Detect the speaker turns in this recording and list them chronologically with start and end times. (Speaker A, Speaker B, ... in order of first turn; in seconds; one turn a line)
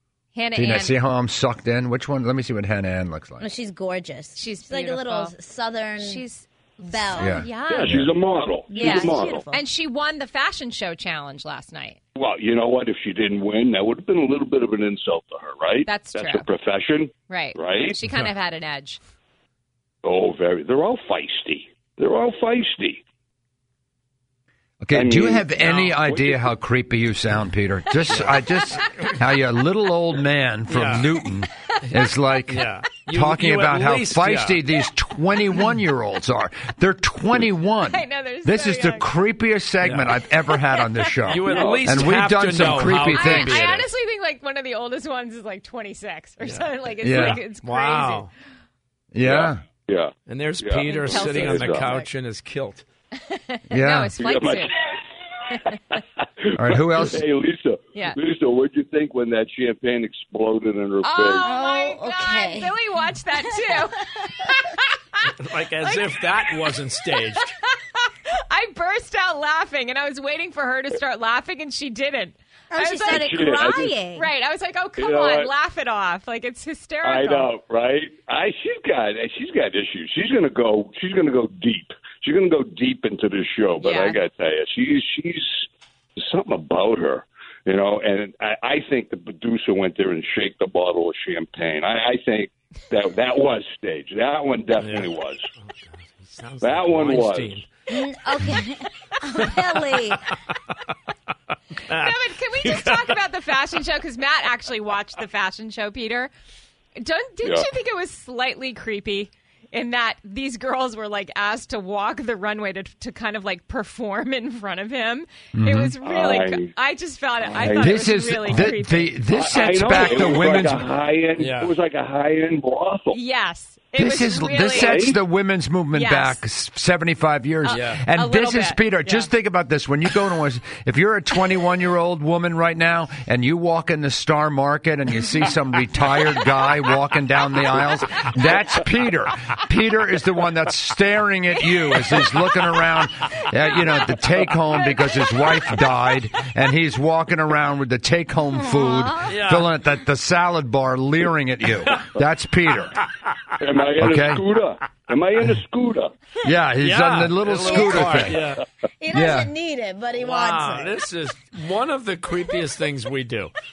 Speaker A: 0.3-0.9
Speaker B: 0.5-3.5
Speaker C: 3.4-6.2
Speaker A: 4.3-5.3
Speaker A: 6.0-7.9
Speaker C: 6.8-7.3
Speaker B: 7.2-8.1
Speaker D: 7.7-9.4
Speaker C: 8.7-9.6
Speaker A: 8.8-12.0
Speaker D: 12.2-18.0
Speaker A: 15.8-16.5
Speaker A: 17.3-19.0
Speaker E: 18.0-18.3
Speaker D: 20.0-23.0
Speaker B: 24.8-43.7
Speaker D: 24.9-25.5
Speaker E: 25.6-26.0
Speaker D: 26.0-26.5
Speaker E: 28.1-28.4
Speaker E: 30.7-31.1
Speaker E: 32.5-34.6
Speaker A: 37.8-39.1
Speaker E: 39.8-40.2
Speaker A: 40.5-41.4
Speaker E: 41.2-43.9
Speaker D: 41.4-42.1
Speaker A: 42.7-48.3
Speaker E: 46.4-48.3
Speaker B: 47.0-47.4
Speaker B: 49.1-49.6
Speaker D: 49.2-52.0
Speaker E: 50.3-52.9
Speaker A: 50.9-52.1
Speaker A: 53.2-54.7
Speaker B: 53.7-54.1
Speaker D: 54.2-55.0
Speaker B: 56.5-57.2
Speaker D: 56.7-61.5
Speaker A: 61.0-65.3
Speaker C: 61.4-62.8
Speaker E: 65.3-67.4
Speaker A: 65.8-66.4
Speaker A: 67.2-73.3
Speaker C: 72.7-74.3
Speaker D: 73.1-74.0
Speaker A: 74.1-77.5
Speaker D: 75.0-75.5
Speaker D: 77.0-85.7
Speaker A: 83.8-84.2
Speaker D: 86.2-95.4
Speaker E: 94.8-97.7
Speaker D: 96.6-97.6
Speaker C: 97.9-100.2
Speaker E: 98.2-98.7
Speaker E: 99.4-100.3
Speaker E: 101.8-103.2
Speaker A: 101.9-106.3
Speaker A: 107.0-119.2
Speaker D: 107.4-107.7
Speaker B: 115.5-115.9
Speaker D: 116.0-116.7
Speaker D: 117.5-118.7
Speaker B: 117.7-120.8
Speaker D: 119.3-123.2
Speaker E: 121.3-121.8
Speaker A: 123.1-125.0
Speaker B: 124.0-153.0
Speaker D: 124.6-125.2
Speaker A: 125.9-126.4
Speaker A: 127.7-129.3
Speaker E: 127.7-128.0
Speaker C: 148.5-149.3
Speaker E: 149.2-149.7
Speaker D: 153.6-156.1
Speaker B: 154.0-154.4
Speaker B: 156.4-158.5
Speaker E: 156.8-158.6
Speaker C: 157.6-158.5
Speaker C: 159.0-161.0
Speaker B: 159.1-159.5
Speaker E: 160.1-163.5